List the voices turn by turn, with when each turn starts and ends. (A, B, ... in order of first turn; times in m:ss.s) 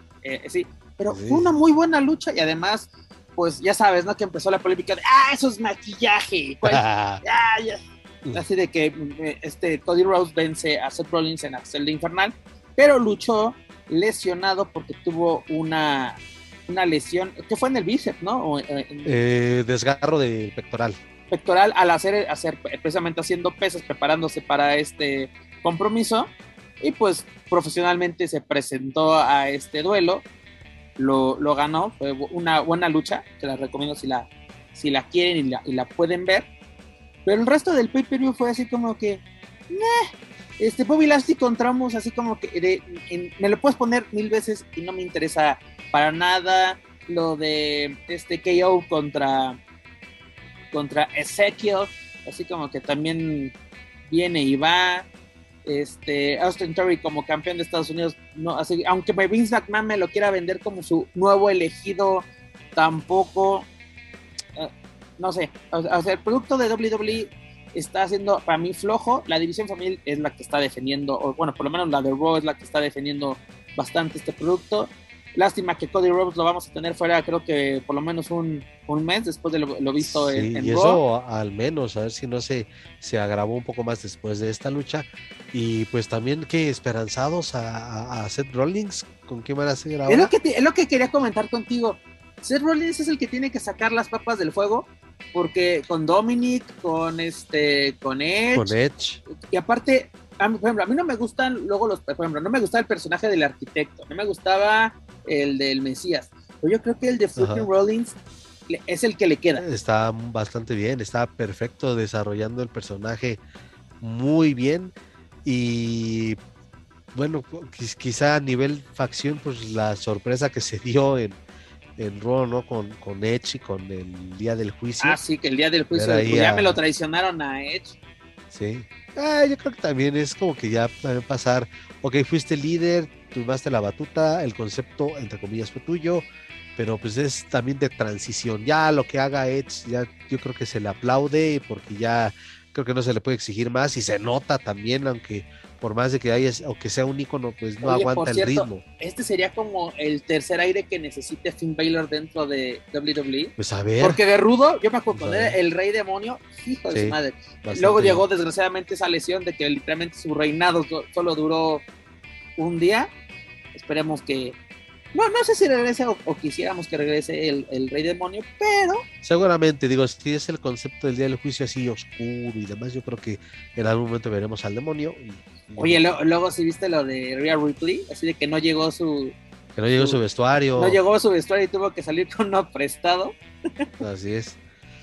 0:00.2-0:19.2 A
0:01.1-0:01.5 B
0:06.6-0:07.2 B
0:19.0-0:21.0 B
0:21.3-0:30.3 A
0:31.0-0:36.5 A
0:37.3-0:49.6 A
0:50.7-0:53.5 A
0:54.1-0:55.1 A
0:55.6-1:03.7 A
1:04.6-1:21.0 A
1:20.0-1:30.3 B
1:30.1-1:38.7 A
1:38.5-1:39.2 B
1:39.5-1:48.2 A
1:47.4-1:47.7 B
1:48.7-1:49.6 A
1:49.6-1:53.4 B
1:54.0-1:54.9 B
1:55.4-1:56.4 B
1:57.1-2:01.4 B
2:02.0-2:05.2 B
2:05.0-2:08.0 A
2:05.9-2:06.8 B
2:08.5-2:28.8 B
2:27.8-2:41.9 A
2:33.6-2:34.2 B
2:35.1-2:35.6 B
2:36.9-2:38.2 B
2:42.6-2:43.1 A
2:43.7-2:44.6 A
2:45.2-2:49.1 A
2:49.2-2:56.0 B
2:55.8-2:59.4 A
2:59.8-3:01.0 B
3:00.8-3:03.9 A
3:04.0-3:04.6 B